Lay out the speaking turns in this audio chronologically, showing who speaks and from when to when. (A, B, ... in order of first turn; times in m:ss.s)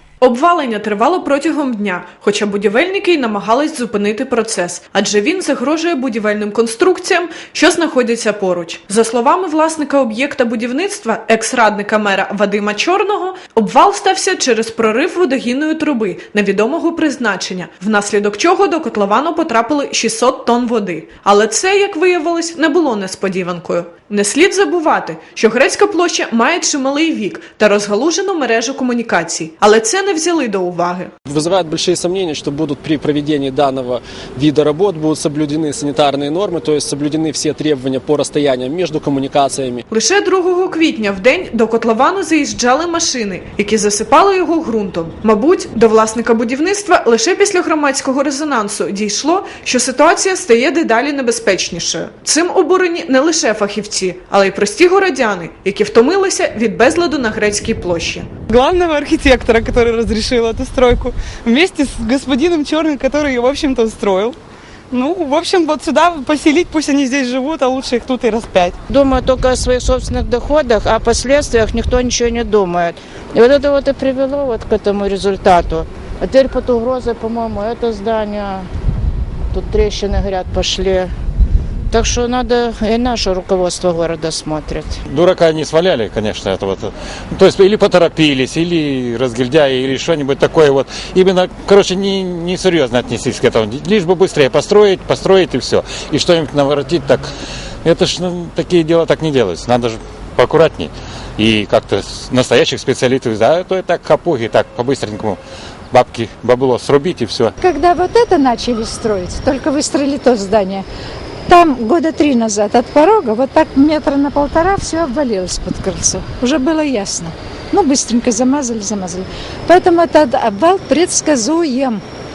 0:00.2-0:31.1 A
0:31.3-0:39.8 B
0:39.9-0:58.3 A
0:58.5-1:04.4 C
1:04.9-1:08.8 C
1:08.9-1:18.7 D
1:19.5-1:21.1 D
1:21.9-1:25.0 D
1:25.1-1:37.3 E
1:37.8-1:45.4 E
1:45.9-1:47.5 E
1:47.6-1:50.8 F
1:51.5-2:02.0 F